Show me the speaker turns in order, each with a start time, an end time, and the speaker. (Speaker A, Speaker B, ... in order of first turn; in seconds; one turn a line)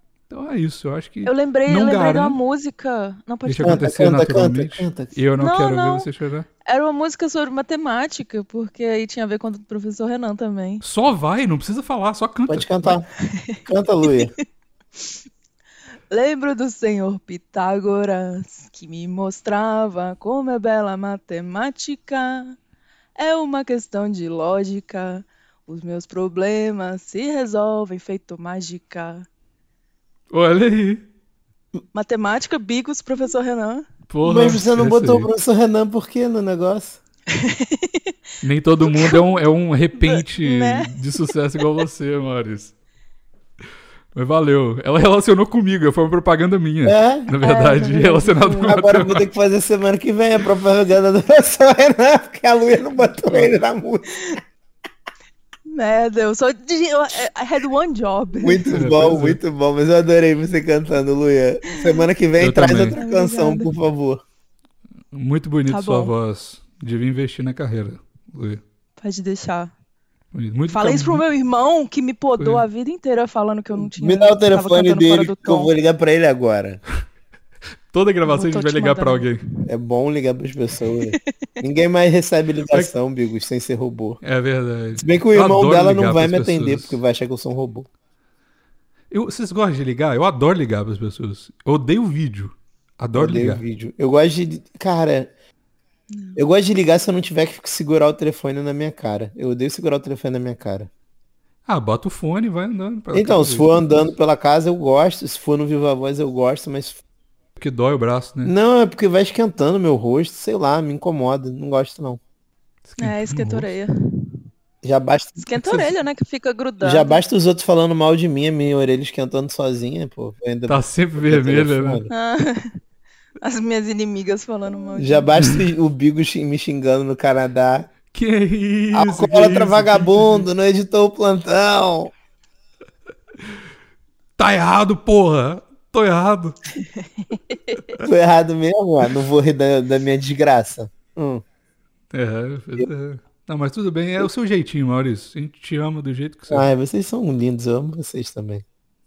Speaker A: 0.3-2.4
Speaker B: 1.2-3.9
Speaker A: 3.5-6.5
Speaker C: 3.6-5.1
Speaker B: 5.4-6.1
Speaker B: 6.7-10.8
Speaker A: 10.8-13.0
Speaker C: 12.5-13.1
Speaker B: 13.2-14.3
Speaker C: 13.7-14.3
Speaker B: 16.1-22.6
Speaker B: 23.2-29.3
Speaker A: 30.3-31.1
Speaker B: 31.9-34.6
Speaker A: 34.1-35.3
Speaker C: 34.2-37.0
Speaker B: 37.3-38.1
Speaker A: 38.4-42.7
Speaker B: 38.8-39.2
Speaker B: 40.0-41.8
Speaker A: 44.1-49.3
Speaker C: 46.9-47.4
Speaker B: 47.4-48.8
Speaker C: 48.7-54.3
Speaker B: 55.7-58.8
Speaker C: 58.4-64.2
Speaker A: 58.7-59.4
Speaker B: 61.7-62.1
Speaker A: 62.4-63.0
Speaker B: 62.7-63.7
Speaker A: 65.1-68.6
Speaker B: 65.7-66.1
Speaker B: 69.0-69.7
Speaker A: 70.3-71.2
Speaker B: 70.7-75.7
Speaker A: 72.4-72.7
Speaker C: 73.8-76.8
Speaker A: 77.9-79.4
Speaker B: 78.3-79.4
Speaker C: 79.7-84.2
Speaker B: 80.9-81.2
Speaker A: 84.2-87.0
Speaker C: 85.0-87.9
Speaker A: 89.1-93.6
Speaker C: 93.2-95.3
Speaker B: 96.1-96.4
Speaker C: 96.4-100.9
Speaker A: 101.7-104.0
Speaker C: 103.1-107.0
Speaker A: 107.6-108.5
Speaker C: 108.5-112.2
Speaker A: 112.9-113.7
Speaker B: 113.0-114.4
Speaker C: 114.8-115.9
Speaker B: 115.4-117.2
Speaker C: 116.8-122.1
Speaker A: 120.7-122.0
Speaker B: 122.1-122.8
Speaker B: 123.4-125.3
Speaker C: 125.0-127.9
Speaker A: 128.1-130.5
Speaker C: 128.9-132.1
Speaker A: 134.4-136.6
Speaker B: 137.0-138.0
Speaker C: 138.0-141.4
Speaker A: 142.1-146.7
Speaker C: 146.5-148.6